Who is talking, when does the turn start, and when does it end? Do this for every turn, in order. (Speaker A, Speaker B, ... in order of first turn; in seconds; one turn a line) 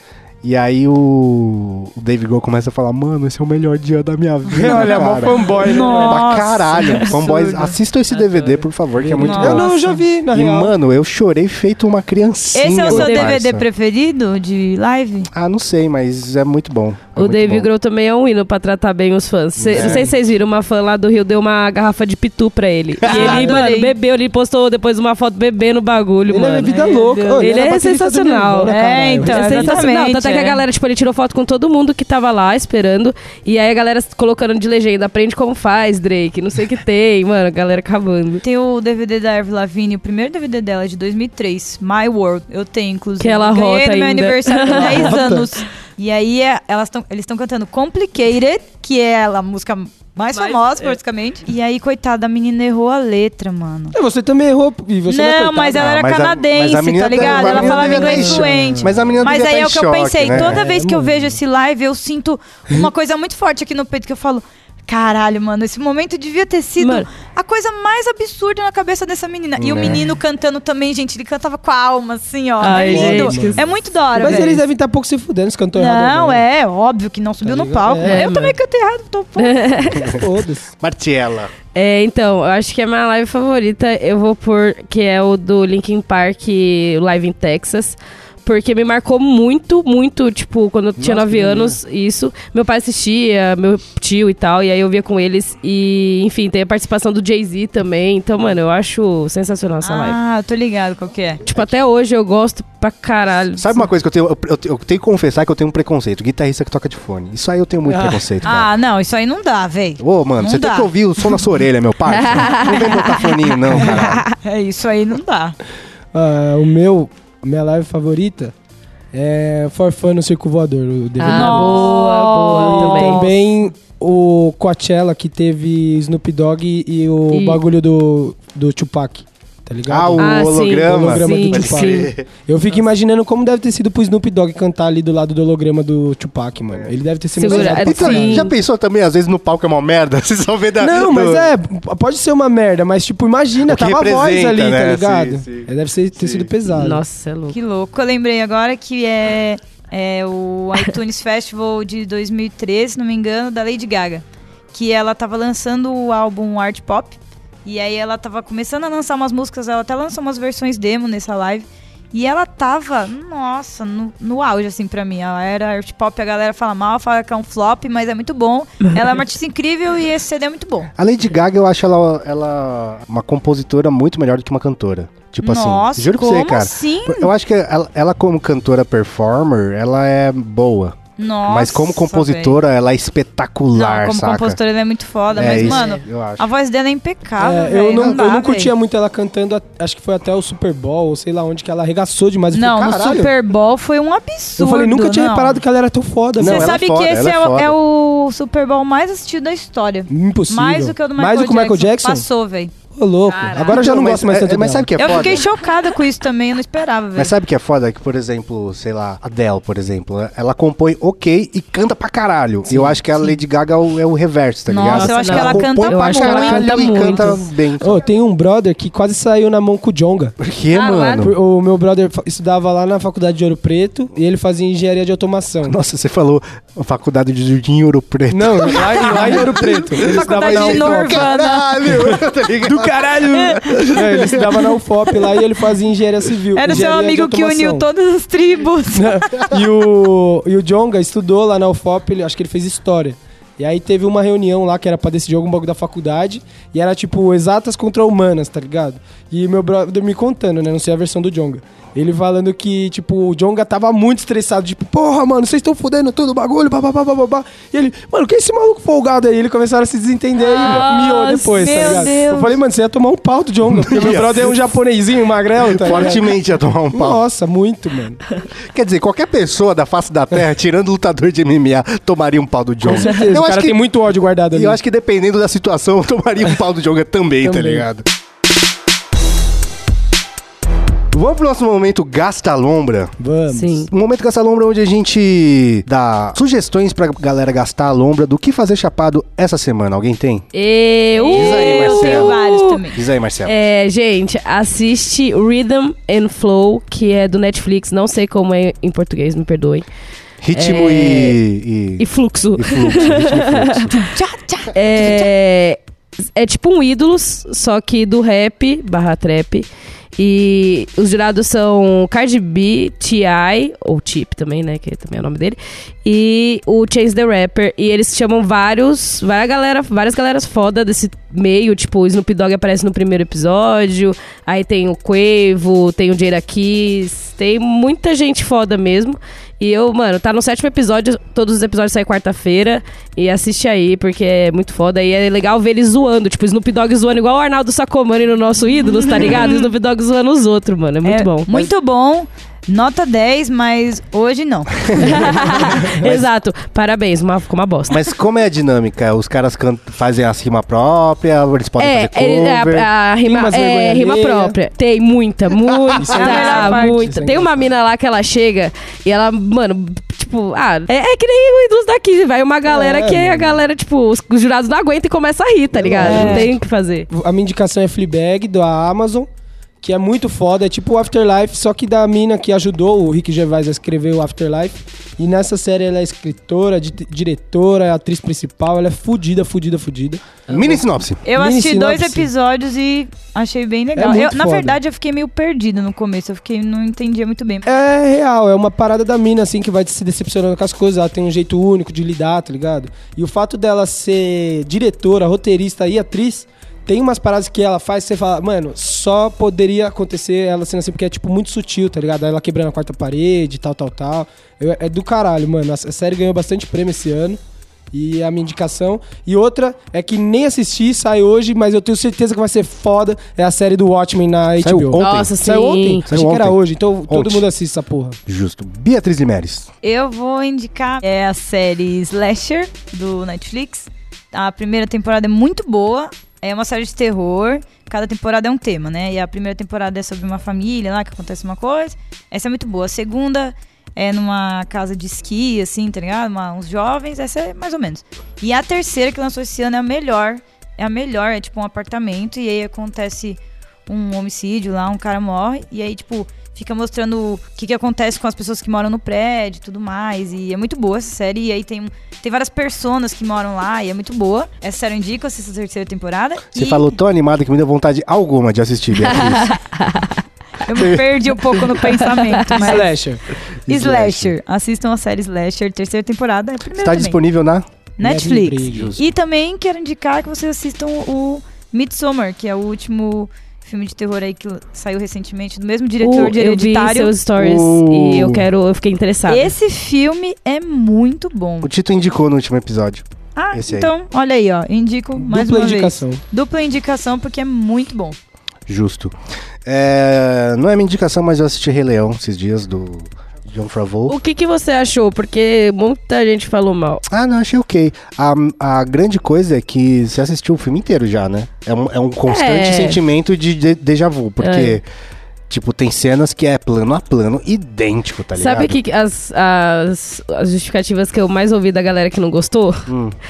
Speaker A: 0.4-9.7
Speaker B: 4.5-6.3
Speaker C: 5.6-7.8
Speaker D: 8.1-8.7
Speaker B: 9.0-10.7
Speaker C: 9.2-10.0
Speaker A: 10.3-13.7
Speaker C: 12.6-15.3
Speaker D: 12.8-13.3
Speaker A: 15.3-17.7
Speaker D: 17.2-38.4
Speaker A: 19.6-20.1
Speaker B: 19.8-20.1
Speaker A: 23.0-23.6
Speaker C: 23.1-23.9
Speaker B: 26.3-29.9
Speaker C: 26.7-27.4
Speaker C: 28.7-30.6
Speaker C: 38.4-54.0
Speaker D: 43.2-45.3
Speaker B: 44.7-45.5
Speaker D: 50.3-51.0
Speaker B: 53.9-55.9
Speaker C: 55.1-74.6
Speaker A: 55.8-60.6
Speaker B: 57.2-59.2
Speaker D: 57.6-58.4
Speaker B: 60.3-61.4
Speaker D: 66.8-67.1
Speaker A: 69.6-70.0
Speaker D: 72.6-74.5
Speaker B: 72.7-73.6
Speaker B: 74.2-76.4
Speaker C: 75.8-80.1
Speaker B: 77.4-78.3
Speaker D: 78.0-78.6
Speaker D: 79.4-80.2
Speaker A: 79.9-80.2
Speaker B: 80.1-80.7
Speaker A: 80.8-81.5
Speaker D: 81.7-100.2
Speaker A: 91.0-91.8
Speaker C: 99.8-101.4
Speaker A: 101.5-101.7
Speaker D: 101.5-103.9
Speaker A: 103.6-108.7
Speaker B: 107.9-108.2
Speaker C: 108.4-110.9
Speaker A: 110.0-114.2
Speaker D: 112.1-113.4
Speaker C: 113.8-115.6
Speaker B: 116.1-118.5
Speaker B: 119.1-138.5
Speaker D: 121.2-123.3
Speaker C: 121.2-123.3
Speaker D: 127.3-127.6
Speaker A: 129.9-132.3
Speaker D: 130.2-132.1
Speaker D: 137.4-138.5
Speaker A: 137.5-141.5
Speaker B: 140.8-147.0
Speaker A: 143.6-146.5
Speaker D: 146.7-147.6
Speaker C: 147.5-170.9
Speaker A: 171.0-184.6
Speaker C: 175.4-177.3
Speaker C: 181.2-182.6
Speaker C: 183.8-188.7
Speaker A: 185.3-186.5
Speaker D: 185.5-185.9
Speaker B: 187.4-193.3
Speaker C: 192.5-195.6
Speaker B: 194.6-196.8
Speaker A: 196.4-197.8
Speaker C: 196.4-202.7
Speaker B: 200.1-202.2
Speaker B: 202.9-204.9
Speaker D: 203.3-203.9
Speaker A: 203.7-205.5
Speaker C: 205.0-207.3
Speaker A: 207.2-218.0
Speaker B: 212.7-212.9
Speaker C: 214.7-217.3
Speaker D: 214.8-217.5
Speaker B: 217.8-220.3
Speaker A: 220.4-221.3
Speaker D: 220.7-221.3
Speaker B: 221.2-225.8
Speaker A: 225.7-234.7
Speaker B: 228.3-231.3
Speaker C: 229.0-231.7
Speaker B: 231.9-237.9
Speaker C: 236.6-239.4
Speaker B: 238.9-266.3
Speaker D: 260.4-262.1
Speaker C: 260.6-260.9
Speaker C: 261.5-262.6
Speaker A: 263.7-264.7
Speaker A: 265.7-267.2
Speaker B: 266.9-268.2
Speaker A: 268.6-273.8
Speaker B: 272.8-274.8
Speaker A: 274.5-278.0
Speaker B: 277.4-277.9
Speaker A: 281.1-283.1
Speaker B: 283.2-283.9
Speaker D: 283.5-283.9
Speaker A: 283.9-290.5
Speaker D: 290.5-292.8
Speaker C: 291.1-293.0
Speaker A: 291.3-292.4
Speaker A: 292.9-293.5
Speaker D: 293.4-299.9
Speaker A: 300.4-304.0
Speaker D: 300.6-301.4
Speaker D: 302.0-303.9
Speaker C: 303.9-305.3
Speaker D: 304.7-305.8
Speaker D: 306.4-309.7
Speaker D: 310.2-341.5
Speaker C: 338.9-339.7
Speaker C: 341.0-345.4
Speaker D: 345.0-348.0
Speaker B: 345.8-346.2
Speaker A: 347.9-352.9
Speaker D: 351.8-367.1
Speaker B: 353.2-354.6
Speaker A: 355.7-356.0
Speaker B: 356.0-357.7
Speaker C: 356.1-357.1
Speaker B: 362.7-363.6
Speaker B: 365.7-366.5
Speaker C: 366.0-366.5
Speaker B: 367.1-369.3
Speaker B: 369.8-380.8
Speaker A: 380.5-381.2
Speaker C: 381.2-387.7
Speaker B: 381.4-382.3
Speaker B: 383.9-384.8
Speaker B: 387.6-407.4
Speaker B: 407.9-418.2
Speaker A: 414.6-415.4
Speaker D: 415.0-416.1
Speaker A: 416.0-417.5
Speaker A: 418.3-419.7
Speaker C: 419.8-456.9
Speaker A: 456.5-459.5
Speaker D: 459.0-460.1
Speaker C: 460.6-462.9
Speaker A: 460.8-461.0
Speaker D: 461.8-462.8
Speaker B: 462.5-463.2
Speaker A: 463.7-464.3
Speaker C: 463.7-467.2
Speaker A: 466.7-467.7
Speaker C: 468.0-477.1
Speaker B: 468.0-468.9
Speaker A: 468.7-469.0
Speaker D: 476.0-479.5
Speaker A: 477.4-478.5
Speaker C: 479.3-481.7
Speaker A: 481.6-483.9
Speaker C: 483.4-488.2
Speaker B: 485.2-486.2
Speaker A: 488.7-494.2
Speaker D: 494.1-497.0
Speaker A: 497.1-504.9
Speaker D: 502.3-503.0
Speaker D: 504.4-504.8
Speaker A: 505.5-508.8
Speaker D: 508.4-512.9
Speaker A: 512.9-513.2